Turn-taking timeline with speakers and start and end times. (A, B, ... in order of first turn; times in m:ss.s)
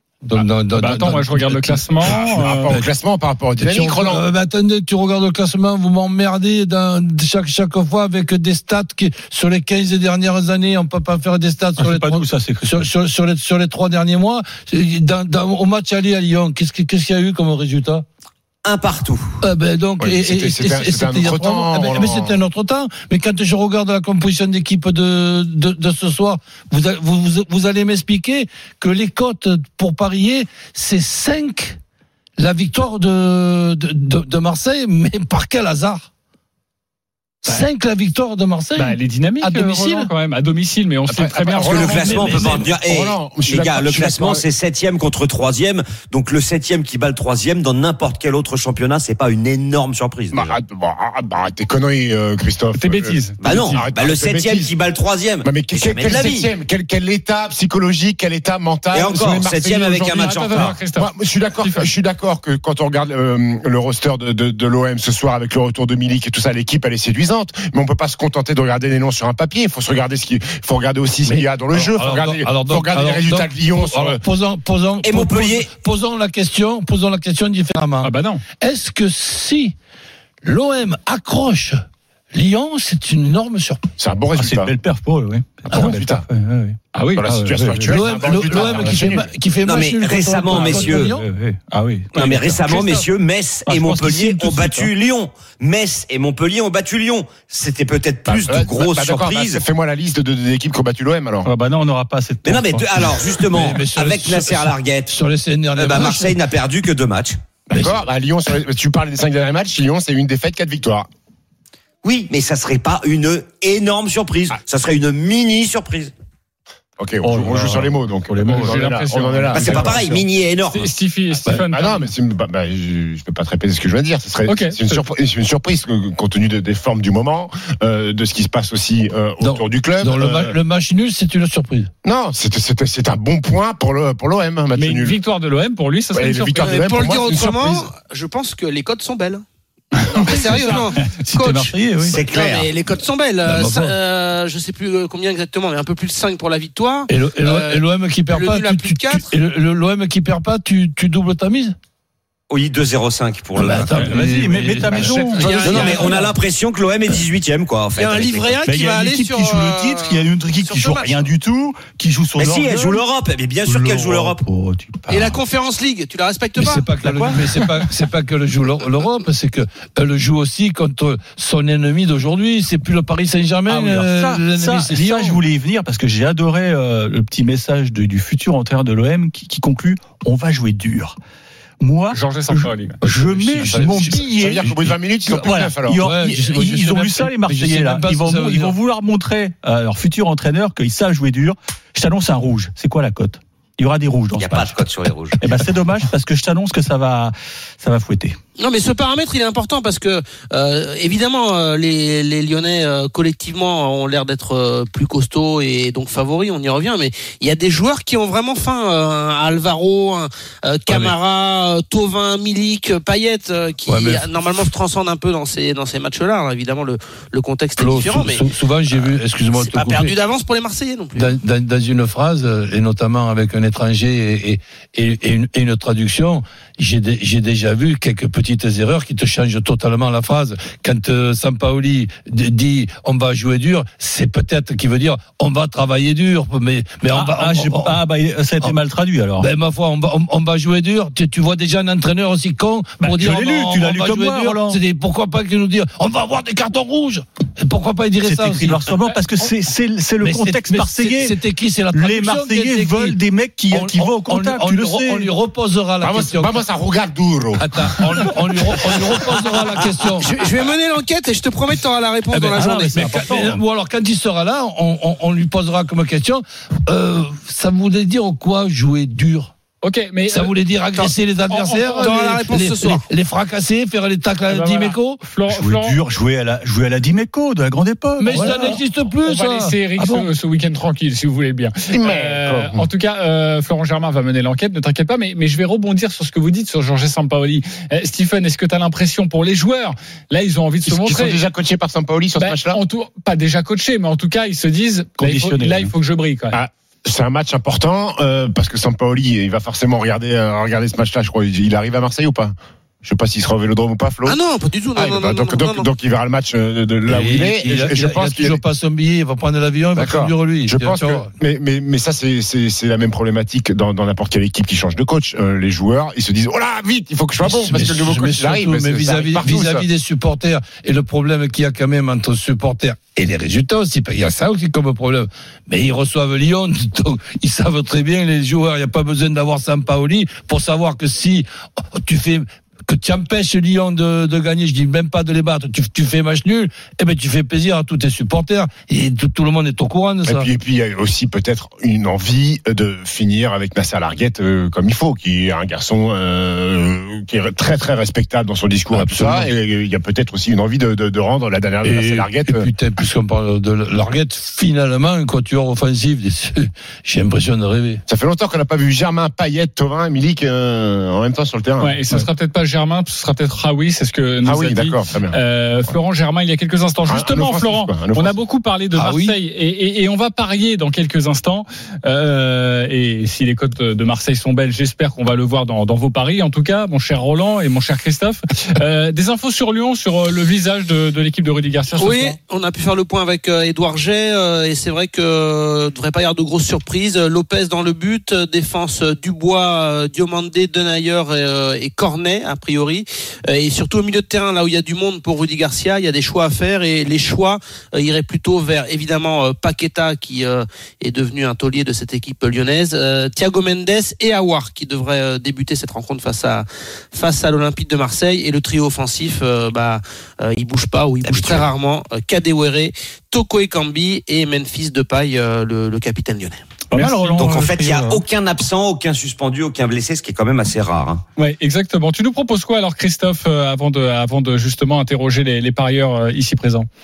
0:00.2-0:02.8 A
0:00.7-0:02.7 B
0:02.0-0:04.2 C
0:03.6-0:18.0 A
0:11.8-0:12.8 D
0:18.6-0:19.4 E
0:19.4-0:31.8 A
0:20.0-0:22.4 C
0:32.4-0:36.1 A
0:37.4-0:40.0 A
0:38.8-0:42.6 B
0:41.1-0:44.4 C
0:41.6-0:50.6 E
0:50.3-0:54.7 C
0:52.7-0:53.4 B
0:53.4-0:56.5 E
0:55.4-1:14.2 C
0:58.9-1:00.8 E
1:00.1-1:01.9 B
1:11.2-1:19.7 A
1:15.0-1:15.7 E
1:18.0-1:18.4 B
1:20.4-1:21.8 A
1:22.3-1:23.8 A
1:24.0-1:24.7 C
1:24.4-1:29.2 D
1:25.7-1:26.2 C
1:26.9-1:27.3 B
1:27.2-1:29.3 C
1:27.9-1:31.2 A
1:29.6-1:31.1 E
1:30.4-1:32.8 D
1:32.1-1:39.6 E
1:33.6-1:34.9 D
1:38.2-1:41.5 C
1:41.4-1:43.4 D
1:42.4-1:45.1 E
1:43.5-1:46.4 A
1:45.7-1:47.4 E
1:47.7-1:51.1 C
1:52.0-1:56.1 E
1:57.0-2:00.2 C
1:57.2-1:58.8 D
1:58.5-1:59.9 B
1:59.5-2:00.9 E
1:59.6-1:59.9 D
2:00.7-2:02.1 B
2:01.6-2:10.5 C
2:04.4-2:05.0 B
2:09.4-2:11.9 A
2:12.0-2:15.2 C
2:14.7-2:17.0 B
2:16.1-2:17.9 C
2:16.6-2:19.4 F
2:20.2-2:29.3 F
2:20.2-2:20.8 B
2:20.2-2:22.2 D
2:22.0-2:22.7 E
2:23.4-2:24.0 A
2:27.1-2:31.7 A
2:32.5-2:34.2 E
2:33.5-2:35.4 A
2:33.8-2:36.3 D
2:34.9-2:36.0 C
2:35.4-2:38.6 E
2:35.4-2:35.9 F
2:38.0-2:41.3 F
2:38.6-2:43.0 D
2:42.4-2:44.4 E
2:43.6-2:45.4 D
2:45.1-2:46.9 F
2:46.6-2:55.4 A
2:47.0-2:47.8 D
2:53.7-3:01.1 D
3:01.8-3:14.8 D
3:02.1-3:03.0 B
3:03.0-3:04.2 A
3:03.7-3:06.1 C
3:06.0-3:08.8 A
3:14.4-3:15.4 E
3:15.4-3:18.4 D
3:18.6-3:41.3 F
3:30.9-3:31.2 A
3:33.9-3:34.3 A
3:37.8-3:40.1 A
3:41.1-3:58.0 A
3:57.1-3:59.5 D
3:59.4-4:09.0 A
4:03.0-4:04.8 D
4:08.2-4:11.4 D
4:10.2-4:16.6 A
4:11.9-4:15.3 D
4:16.0-4:17.6 C
4:17.6-4:20.3 A
4:19.8-4:20.2 E
4:20.2-4:23.2 F
4:22.3-4:29.5 A
4:22.5-4:23.6 D
4:29.8-4:30.5 B
4:30.3-4:35.2 A
4:31.5-4:32.4 B
4:32.0-4:33.0 F
4:34.5-4:36.0 B
4:35.5-4:38.8 D
4:38.2-4:40.3 A
4:38.3-4:51.4 B
4:41.9-4:42.9 C
4:50.9-4:52.8 C
4:52.4-4:56.6 B
4:55.2-4:55.9 D
4:56.5-5:04.4 C
5:04.2-5:05.9 F
5:05.0-5:08.6 C
5:07.1-5:11.3 A
5:10.0-5:19.8 C
5:17.4-5:40.5 A
5:40.3-5:52.7 C
5:48.9-5:49.5 A
5:51.8-5:58.0 A
5:58.1-6:02.2 C
6:01.8-6:22.4 B
6:04.4-6:05.4 C
6:07.0-6:08.4 C
6:08.9-6:09.4 A
6:21.9-6:56.6 F
6:51.2-6:51.7 E
6:56.9-6:58.2 D
6:56.9-6:57.4 B
6:57.3-7:01.2 E
7:01.4-7:06.9 B